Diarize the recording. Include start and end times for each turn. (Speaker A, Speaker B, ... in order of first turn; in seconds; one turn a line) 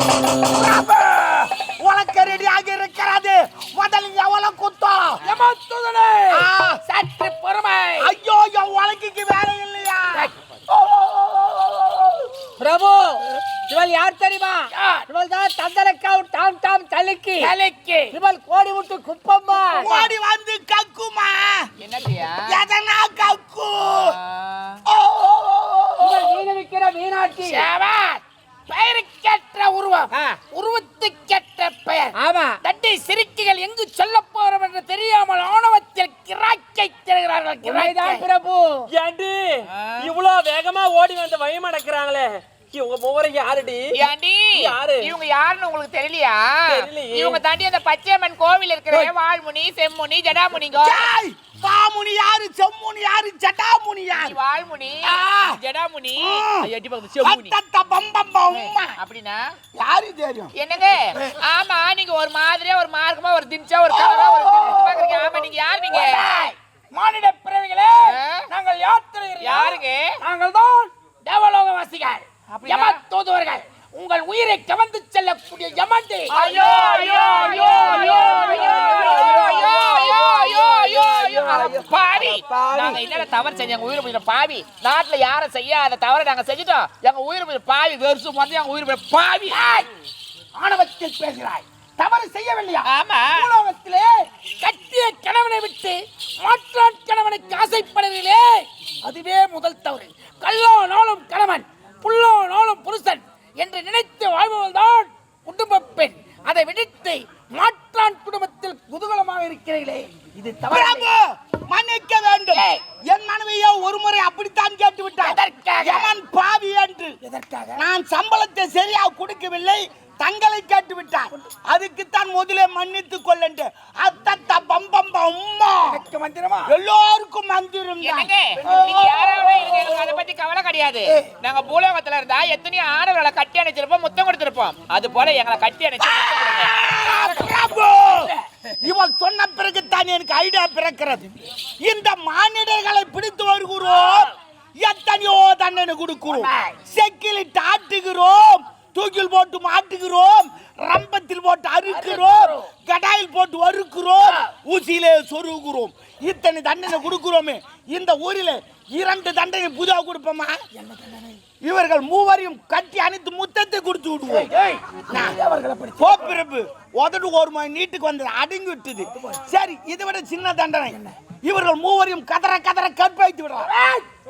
Speaker A: 0.3-5.2
Speaker B: 5.2-8.1
Speaker A: 6.3-6.8
Speaker A: 8.0-12.5
Speaker C: 12.6-17.5
Speaker B: 14.7-15.1
Speaker B: 17.4-18.1
Speaker C: 18.1-19.9
Speaker A: 19.7-21.7
Speaker B: 19.8-20.1
Speaker D: 21.8-22.6
Speaker A: 22.5-24.2
Speaker D: 24.0-24.8
Speaker A: 24.9-26.4
Speaker C: 26.0-27.7
Speaker B: 27.4-38.2
Speaker C: 30.1-30.4
Speaker C: 32.1-32.6
Speaker C: 37.6-38.9
Speaker E: 38.9-44.0
Speaker D: 39.8-40.1
Speaker D: 43.9-51.1
Speaker E: 44.5-45.1
Speaker E: 46.7-47.4
Speaker A: 50.8-54.4
Speaker D: 54.1-57.5
Speaker A: 55.0-55.6
Speaker A: 56.1-59.0
Speaker D: 58.5-59.5
Speaker A: 59.8-60.5
Speaker D: 60.5-66.3
Speaker A: 63.9-65.5
Speaker B: 65.9-81.7
Speaker D: 68.0-68.5
Speaker D: 69.4-70.2
Speaker D: 72.5-73.0
Speaker D: 76.3-89.6
Speaker C: 77.8-79.3
Speaker E: 82.2-83.0
Speaker B: 89.5-89.9
Speaker B: 90.5-111.1
Speaker D: 92.8-93.5
Speaker A: 110.7-117.1
Speaker B: 112.5-112.8
Speaker B: 115.2-116.1
Speaker B: 117.2-117.8
Speaker A: 117.8-126.0
Speaker B: 125.9-126.7
Speaker A: 126.7-129.4
Speaker D: 128.0-136.7
Speaker B: 128.6-130.2
Speaker A: 136.0-160.6
Speaker B: 136.9-138.4
Speaker B: 146.3-146.7
Speaker B: 151.9-152.7
Speaker B: 160.7-161.4
Speaker A: 161.6-164.5
Speaker B: 164.3-166.4
Speaker A: 165.1-165.4
Speaker A: 166.0-173.7
Speaker B: 169.1-169.4
Speaker B: 173.6-174.1